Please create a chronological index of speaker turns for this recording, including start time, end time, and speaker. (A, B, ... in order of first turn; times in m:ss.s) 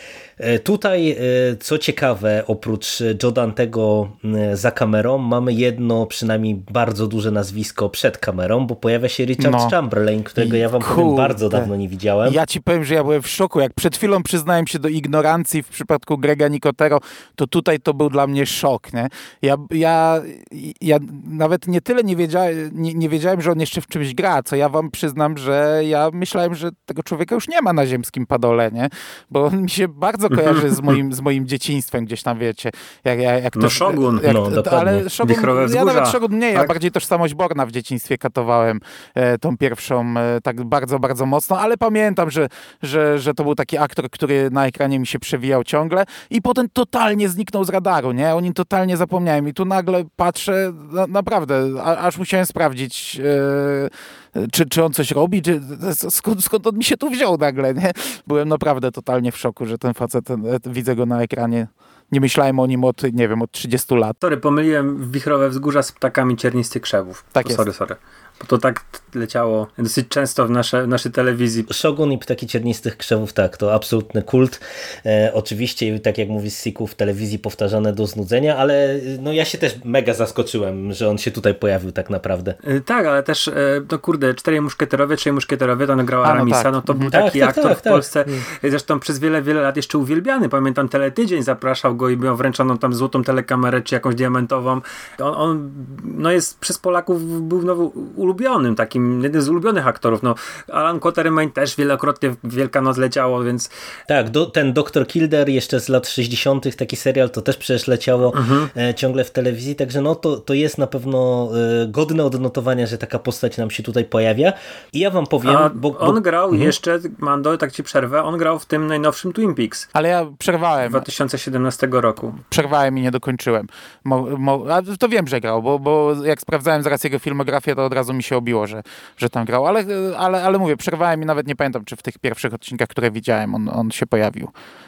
0:00.4-0:12.4 A
0:09.4-0:09.7 B
0:10.4-0:11.7 B
0:12.2-1:04.2 B
0:30.3-0:31.0 C
0:33.6-0:34.3 C
0:34.2-0:35.0 A
0:35.2-0:36.7 C
1:04.2-1:11.7 C
1:07.3-1:07.6 B
1:11.7-1:22.6 A
1:22.6-1:43.7 C
1:26.2-1:27.1 B
1:27.1-1:28.4 A
1:44.1-1:56.7 A
1:48.3-1:48.7 C
1:55.4-1:59.9 C
1:59.9-2:01.0 B
2:00.8-2:02.4 C
2:02.4-2:14.5 B